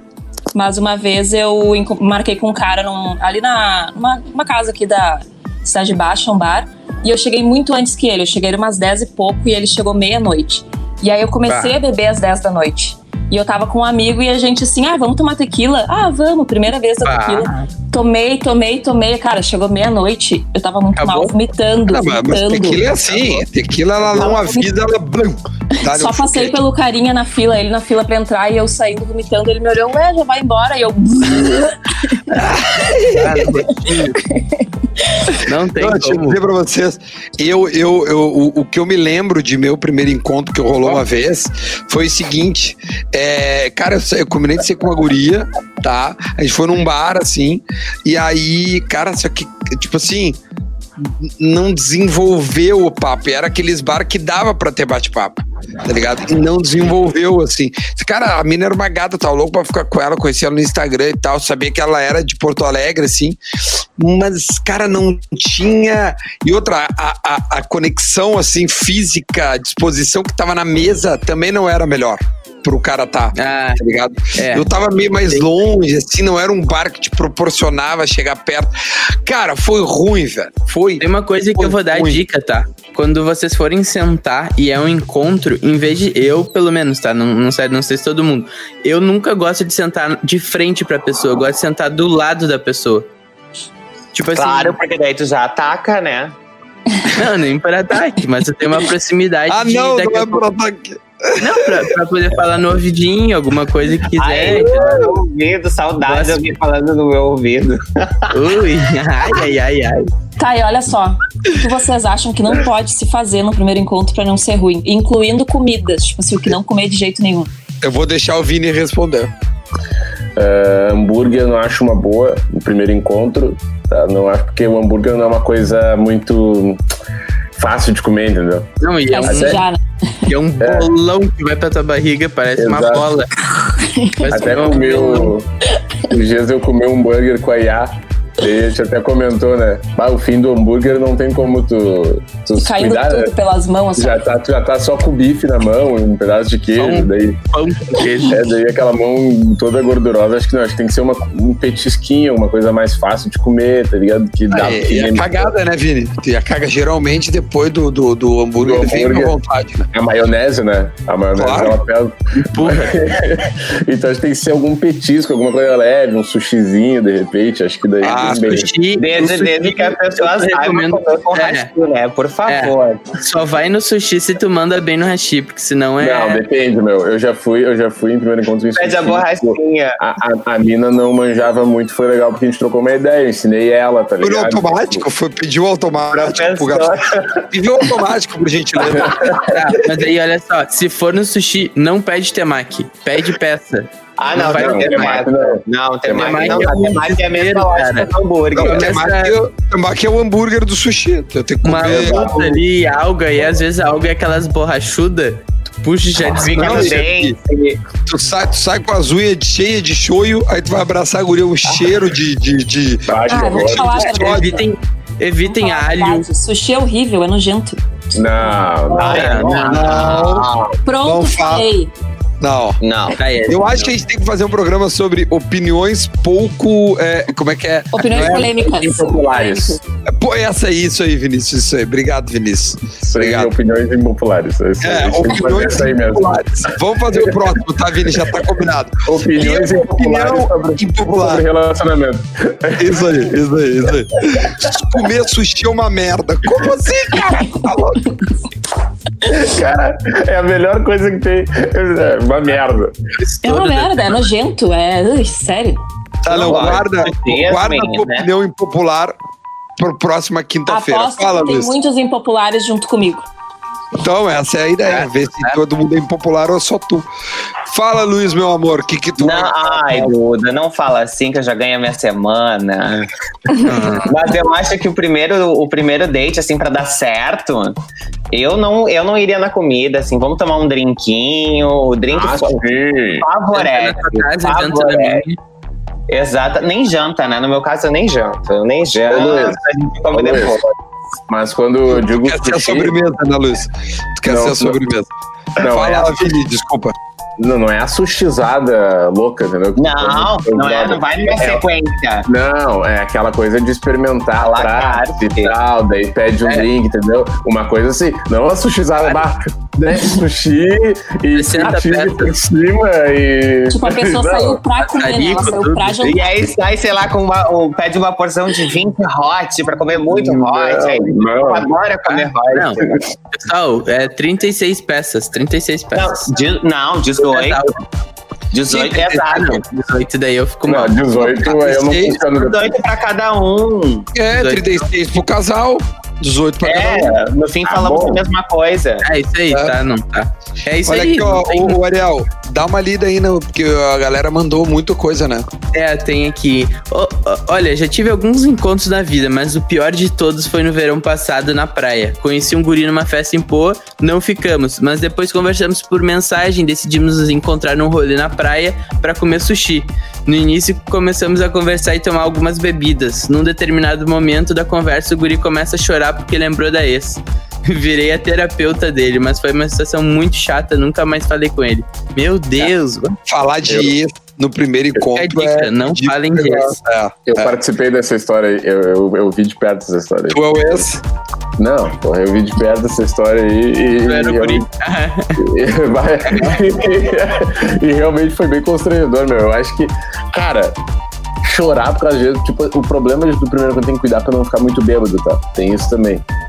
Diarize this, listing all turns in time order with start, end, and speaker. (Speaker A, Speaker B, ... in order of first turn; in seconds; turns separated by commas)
Speaker A: 0.5-22.8, Speaker B: 11.5-11.8, Speaker B: 17.0-17.5, Speaker B: 20.9-21.3, Speaker C: 21.9-26.6, Speaker A: 24.2-24.6, Speaker A: 25.7-32.5, Speaker C: 32.3-33.4, Speaker B: 33.1-34.2, Speaker A: 34.2-35.4, Speaker B: 35.4-36.4, Speaker C: 35.8-50.4, Speaker C: 51.0-63.4, Speaker C: 64.0-78.7, Speaker B: 73.3-73.8, Speaker B: 74.4-74.7, Speaker C: 79.2-82.2, Speaker B: 81.0-93.1, Speaker B: 94.1-94.8, Speaker D: 94.3-96.3, Speaker B: 97.0-100.4, Speaker C: 99.5-101.7, Speaker B: 101.4-105.1, Speaker D: 104.2-108.3, Speaker C: 104.5-105.1, Speaker B: 106.0-106.4, Speaker B: 108.3-110.1, Speaker A: 110.4-117.5, Speaker C: 117.8-119.3, Speaker E: 120.3-126.8, Speaker E: 127.5-128.7, Speaker B: 128.8-129.6, Speaker A: 129.1-129.8, Speaker E: 129.2-129.6, Speaker B: 130.3-133.3, Speaker E: 130.6-130.9, Speaker E: 132.6-133.1, Speaker A: 133.6-134.2, Speaker B: 134.2-135.3, Speaker E: 134.3-135.5, Speaker E: 136.1-143.3, Speaker A: 142.6-144.2, Speaker E: 144.0-147.4, Speaker B: 146.8-148.4, Speaker E: 148.2-155.5, Speaker C: 154.5-159.9, Speaker E: 158.6-159.3, Speaker E: 159.9-168.7, Speaker C: 161.4-161.8, Speaker B: 162.3-163.0, Speaker C: 168.0-168.4, Speaker B: 168.1-171.7, Speaker D: 169.0-173.1, Speaker B: 172.5-176.4, Speaker E: 176.0-185.1, Speaker D: 178.8-180.0, Speaker C: 184.2-189.6, Speaker D: 186.1-187.4, Speaker E: 188.9-189.4, Speaker B: 189.4-195.1, Speaker D: 194.2-199.1, Speaker E: 194.3-196.8, Speaker B: 196.1-199.3, Speaker C: 198.5-202.4, Speaker B: 201.6-207.0, Speaker D: 201.8-202.6, Speaker D: 206.2-207.8, Speaker C: 206.6-207.4, Speaker C: 208.0-214.6, Speaker E: 213.1-213.9, Speaker A: 213.3-214.7, Speaker B: 214.0-216.2, Speaker A: 215.4-217.8, Speaker E: 218.1-219.4, Speaker B: 218.9-219.9, Speaker D: 218.9-220.7, Speaker C: 219.5-220.5, Speaker A: 220.8-221.9, Speaker C: 221.0-221.7, Speaker C: 222.4-222.8, Speaker D: 222.8-223.2, Speaker B: 223.2-223.9, Speaker C: 223.4-228.5, Speaker A: 227.9-229.8, Speaker E: 228.1-229.8, Speaker C: 230.0-233.5, Speaker E: 233.0-237.5, Speaker C: 234.8-241.4, Speaker E: 239.1-243.3, Speaker C: 242.8-248.2, Speaker E: 244.3-244.7, Speaker E: 249.2-252.9, Speaker B: 253.2-254.2, Speaker A: 253.4-255.8, Speaker C: 256.2-259.2, Speaker D: 256.3-258.3, Speaker C: 259.8-261.7, Speaker A: 260.7-263.2, Speaker C: 264.0-267.1, Speaker B: 264.9-265.6, Speaker C: 267.7-270.1, Speaker D: 269.2-273.1, Speaker B: 273.6-274.1, Speaker D: 274.0-277.8, Speaker D: 278.3-282.6, Speaker E: 282.1-283.3, Speaker D: 283.2-285.2, Speaker B: 283.5-285.4, Speaker D: 286.1-290.7, Speaker E: 289.1-289.6, Speaker E: 290.1-290.6, Speaker E: 291.3-292.9, Speaker C: 291.9-296.9, Speaker E: 294.2-294.8, Speaker E: 295.6-296.3, Speaker E: 297.4-301.6, Speaker D: 299.8-302.3, Speaker E: 302.3-314.6, Speaker D: 304.4-305.5, Speaker B: 311.3-312.3, Speaker A: 313.7-316.3, Speaker B: 314.8-316.1, Speaker D: 316.0-322.9, Speaker E: 320.1-321.7, Speaker B: 322.1-326.3, Speaker D: 325.9-327.7, Speaker B: 327.2-327.8, Speaker D: 328.5-329.6, Speaker B: 328.7-330.9, Speaker E: 330.6-332.7, Speaker C: 331.2-332.2, Speaker D: 332.3-334.1, Speaker C: 334.1-337.1, Speaker B: 334.3-334.8, Speaker D: 336.6-339.0, Speaker E: 337.6-338.2, Speaker B: 339.0-341.8, Speaker C: 340.9-345.5, Speaker B: 345.7-373.2, Speaker C: 373.2-377.5, Speaker E: 373.6-373.9, Speaker B: 375.1-376.8, Speaker E: 377.3-380.9, Speaker C: 380.3-381.0, Speaker E: 381.6-384.7, Speaker B: 384.1-385.4, Speaker E: 385.4-390.8, Speaker B: 386.3-386.6, Speaker E: 391.4-396.2